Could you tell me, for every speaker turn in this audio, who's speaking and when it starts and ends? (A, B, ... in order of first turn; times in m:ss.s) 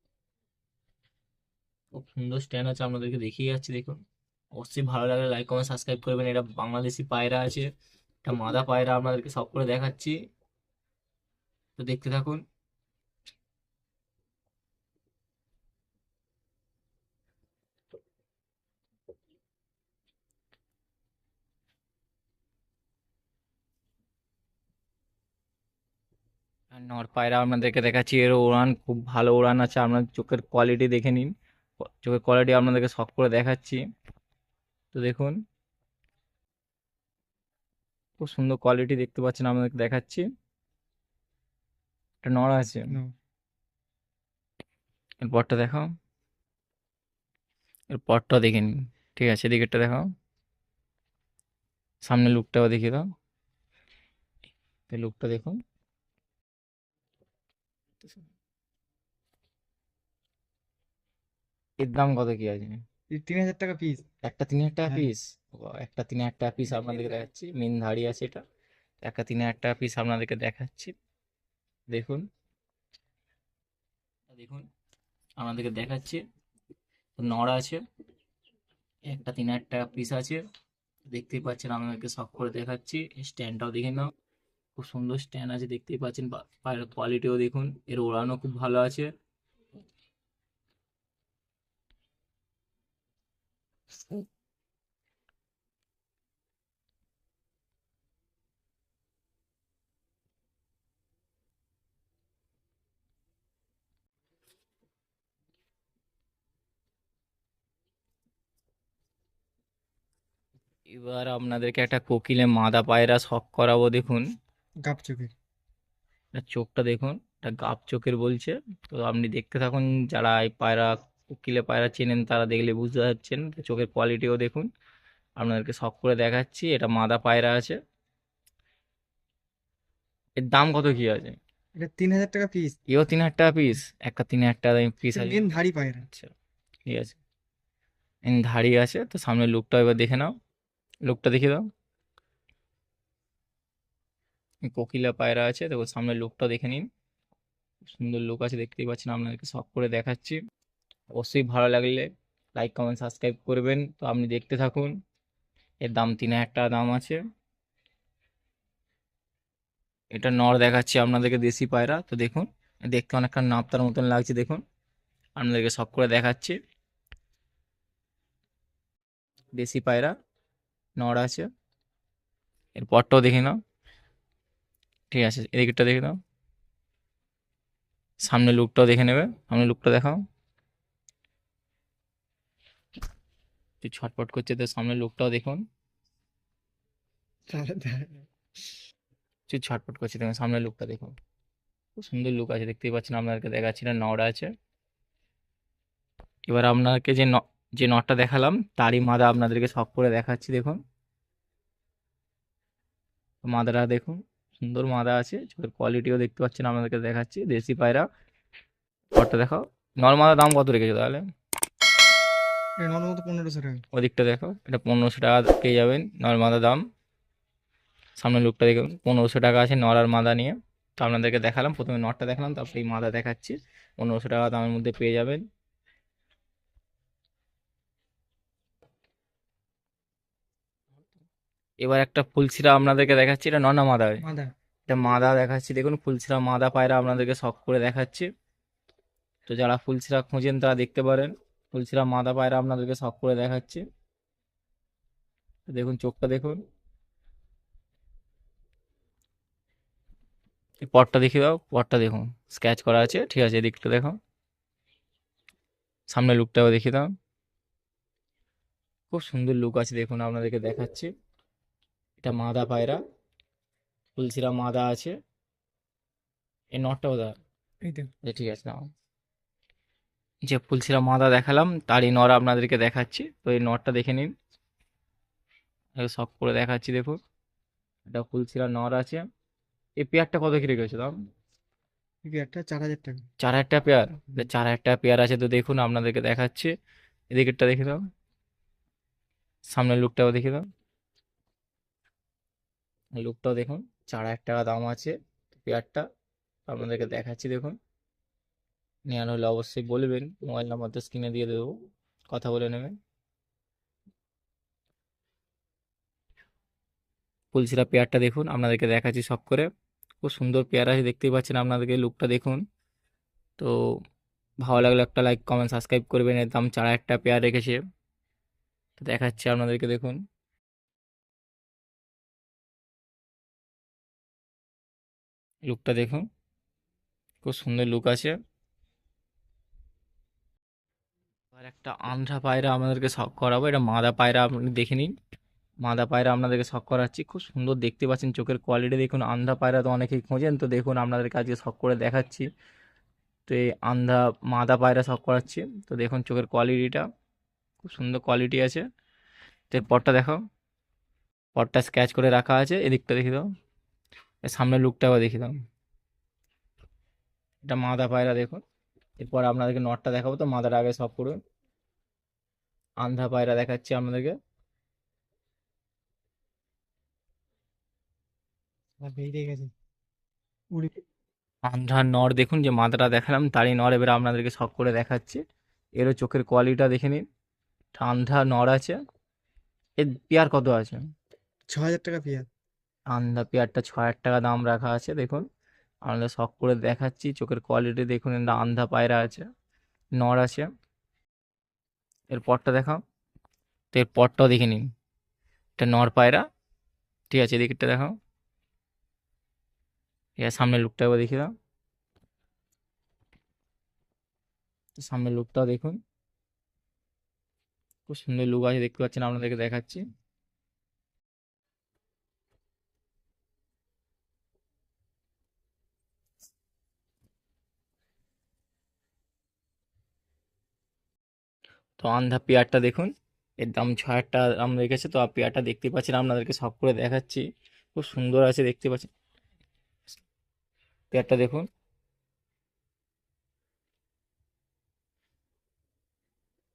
0:01.9-0:04.0 A
0:04.5-0:07.7 A
0:08.2-0:10.2 A
0:11.8-0:12.4 A
0:26.7-0:33.8 A
0:34.9-0:35.4 A
0:38.2-0:40.3 A
0:42.2-0:43.0 A
0:45.2-0:45.9 A
0:47.9-0:50.1 A
0:52.0-0:53.1 A
0:54.9-0:55.6 A
1:01.8-1:02.8 A
1:03.1-1:04.0 B
1:04.2-1:08.4 A
1:09.0-1:10.9 A
1:11.9-1:12.2 A
1:14.3-1:14.7 A
1:15.4-1:16.2 A
1:17.2-1:17.8 A
1:19.1-1:20.4 A
1:21.1-1:24.1 A
1:24.8-1:29.1 A
1:50.9-1:54.3 A
1:54.8-1:55.3 B
1:56.3-2:04.7 A
2:05.4-2:07.8 A
2:10.4-2:11.4 A
2:11.8-2:12.8 B
2:12.9-2:15.5 A
2:15.1-2:16.0 B
2:16.0-2:16.3 A
2:16.9-2:17.2 A
2:18.2-2:20.3 A
2:21.0-2:21.6 A
2:24.6-2:26.9 A
2:27.8-2:30.4 A
2:31.1-2:34.9 A
2:35.8-2:37.2 A
2:40.1-2:44.6 A
2:45.4-2:46.6 A
2:49.5-2:50.1 A
2:51.0-2:51.5 A
2:52.8-2:53.6 A
2:55.1-2:56.2 A
2:58.2-3:00.2 A
3:03.8-3:05.6 A
3:07.5-3:08.3 B
3:09.5-3:11.1 A
3:12.0-3:14.5 A
3:16.5-3:20.8 A
3:23.4-3:28.1 A
3:29.1-3:31.2 A
3:32.8-3:33.8 B
3:33.9-3:36.8 A
3:38.2-3:45.4 A
3:51.8-3:54.2 A
3:54.2-3:54.5 B
3:54.9-3:58.3 A
3:59.4-4:03.8 A
4:05.7-4:06.6 A
4:10.8-4:14.2 A
4:16.1-4:17.1 A
4:19.1-4:21.1 A
4:22.2-4:23.0 A
4:24.2-4:25.2 A
4:26.7-4:27.4 A
4:27.8-4:28.1 B
4:28.2-4:28.9 A
4:30.5-4:34.3 A
4:36.0-4:37.2 A
4:38.1-4:39.3 A
4:40.0-4:41.2 A
4:42.2-4:43.3 B
4:43.4-4:46.7 A
4:47.3-4:48.0 A
4:49.7-4:50.6 A
4:53.2-4:56.0 A
4:56.7-4:57.8 A
4:59.1-5:02.9 A
5:07.5-5:09.7 A
5:10.2-5:12.6 A
5:13.6-5:14.0 A
5:14.6-5:17.8 A
5:19.0-5:20.2 A
5:25.7-5:26.3 A
5:27.4-5:28.4 A
5:31.5-5:35.1 A
5:35.8-5:42.5 A
5:43.5-5:47.1 A
5:47.8-5:48.8 A
5:49.7-5:50.4 A
5:51.5-5:53.4 A
5:54.4-5:55.6 A
5:57.7-5:58.6 A
5:59.2-6:01.4 A
6:03.0-6:04.4 A
6:09.0-6:09.7 B
6:11.6-6:15.4 A
6:15.9-6:17.2 A
6:17.9-6:19.0 A
6:20.0-6:21.1 A
6:21.7-6:22.5 B
6:23.1-6:25.4 A
6:26.0-6:29.4 A
6:30.1-6:30.7 A
6:32.3-6:33.0 A
6:33.9-6:34.9 A
6:35.8-6:36.4 A
6:37.3-6:38.2 A
6:40.4-6:41.5 A
6:45.0-6:46.0 A
6:48.1-6:50.0 A
7:02.0-7:09.1 A
7:11.1-7:11.7 A